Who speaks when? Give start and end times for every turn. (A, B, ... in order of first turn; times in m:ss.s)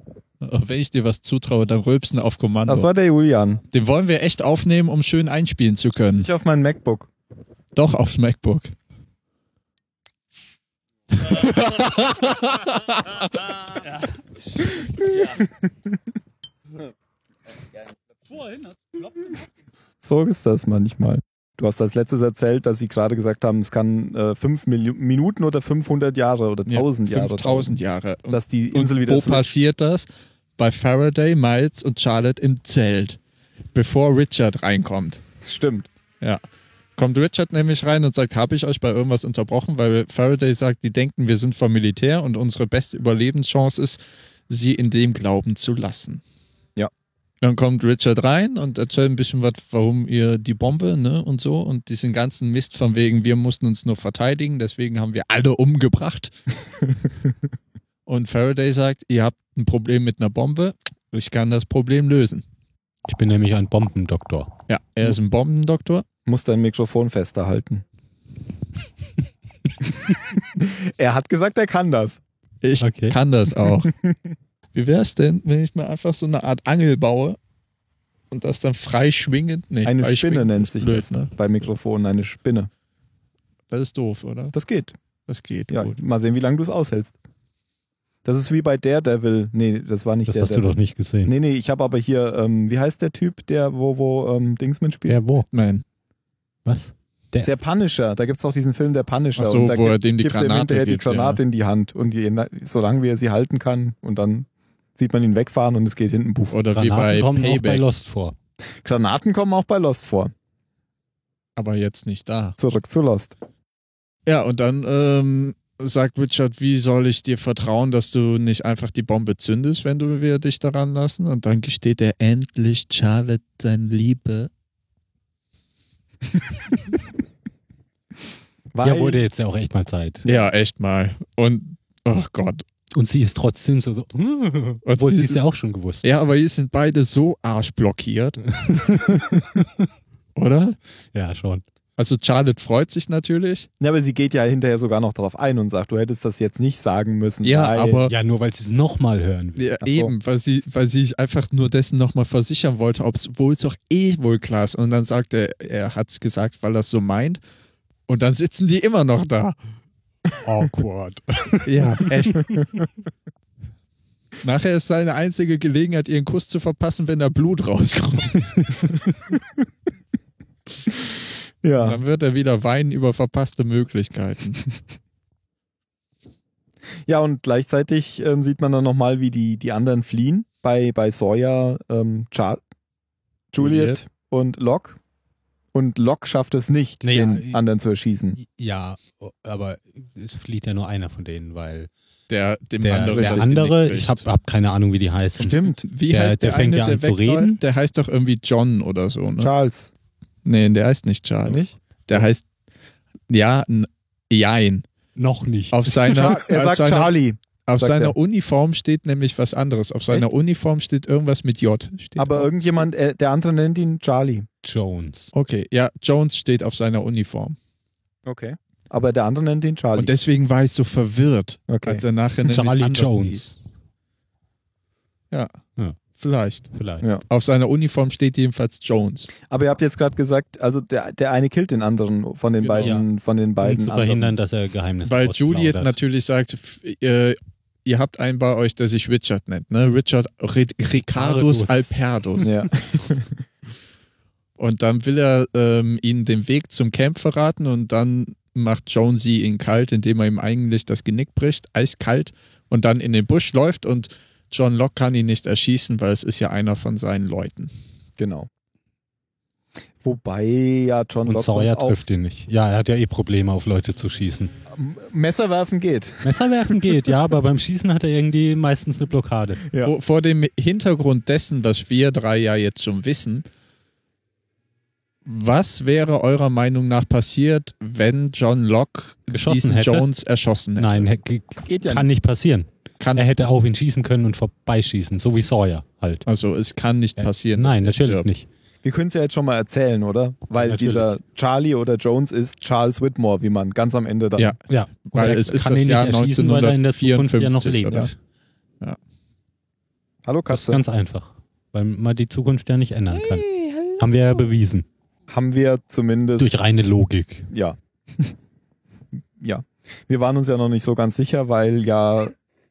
0:00.4-0:02.9 A
0:02.6-0:03.6 B
0:03.7-0:06.3 A
0:06.2-0:07.1 B
0:07.7-0:08.7 A
0:11.1-0:13.6 A
0:14.6-0:15.7 B
0:20.0-0:27.8 B
0:26.7-0:30.0 A
0:28.3-0:29.5 B
0:30.6-0:33.2 A
0:33.7-0:35.2 A
0:35.4-0:35.9 B
0:37.0-0:44.0 A
0:44.5-0:46.2 A
0:47.4-0:56.3 A
0:58.0-1:02.4 A
1:03.0-1:04.5 C
1:04.7-1:06.0 A
1:06.2-1:07.8 B
1:10.5-1:12.2 B
1:12.6-1:13.9 A
1:12.8-1:13.2 C
1:14.7-1:17.4 A
1:18.3-1:21.3 A
1:19.8-1:22.7 B
1:23.7-1:24.5 A
1:24.5-1:24.9 B
1:25.3-1:26.0 A
1:25.7-1:27.1 B
1:28.2-1:35.2 B
1:30.3-1:31.3 C
1:35.1-1:35.4 C
1:35.5-1:35.8 A
1:36.6-1:37.5 C
1:37.4-1:46.6 B
1:39.4-1:41.4 A
1:46.5-1:47.8 A
1:46.7-1:48.4 C
1:48.8-1:50.3 B
1:51.6-1:52.6 A
1:52.6-1:53.3 B
1:54.2-2:04.5 A
2:08.7-2:09.2 B
2:08.8-2:10.4 C
2:10.2-2:12.6 A
2:12.9-2:16.0 C
2:14.8-2:15.4 A
2:16.0-2:18.4 A
2:18.5-2:19.8 C
2:20.4-2:20.8 A
2:21.1-2:21.6 C
2:22.0-2:23.7 A
2:23.8-2:28.1 B
2:27.4-2:28.1 A
2:28.1-2:29.6 C
2:29.6-2:37.4 A
2:29.8-2:30.1 B
2:38.1-2:39.6 A
2:40.4-2:42.6 C
2:41.6-2:42.6 A
2:44.4-2:48.9 A
2:51.6-2:52.0 B
2:51.8-2:54.6 A
2:57.0-3:02.6 B
3:03.5-3:05.0 B
3:03.6-3:04.0 A
3:05.7-3:08.4 B
3:07.0-3:07.6 C
3:08.4-3:11.9 C
3:12.3-3:14.2 A
3:12.8-3:17.6 C
3:15.4-3:15.8 B
3:15.8-3:19.5 A
3:19.4-3:19.9 B
3:20.4-3:22.4 A
3:21.4-3:22.2 B
3:23.3-3:24.8 A
3:25.2-3:26.0 C
3:25.7-3:27.1 A
3:26.0-3:28.1 B
3:27.6-3:32.5 A
3:32.2-3:34.5 B
3:34.6-3:35.3 C
3:35.3-3:37.6 A
3:38.2-3:40.1 B
3:40.0-3:43.5 A
3:41.7-3:42.0 B
3:42.4-3:43.5 C
3:46.1-3:46.7 A
3:46.7-3:47.0 C
3:47.2-3:49.3 A
3:49.5-3:54.3 B
3:52.6-3:53.0 A
3:52.8-3:53.0 C
3:53.6-3:55.9 C
3:55.0-4:02.5 A
4:01.1-4:01.9 C
4:02.4-4:03.4 B
4:04.6-4:17.7 A
4:18.2-4:18.5 B
4:20.0-4:22.0 B
4:21.2-4:24.5 C
4:24.7-4:26.3 B
4:26.2-4:29.6 C
4:29.7-4:29.9 B
4:29.8-4:33.4 A
4:35.2-4:41.1 A
4:39.3-4:40.1 C
4:40.8-4:46.2 C
4:41.6-4:42.1 B
4:43.0-4:43.5 A
4:46.2-4:48.3 A
4:47.2-4:48.5 C
4:48.8-4:54.5 B
4:50.5-4:51.1 C
4:54.4-4:58.1 A
4:54.7-4:58.1 C
5:00.2-5:00.8 B
5:00.5-5:04.8 C
5:03.2-5:04.0 A
5:05.3-5:06.5 B
5:06.4-5:07.5 C
5:07.5-5:08.3 B
5:09.4-5:12.3 B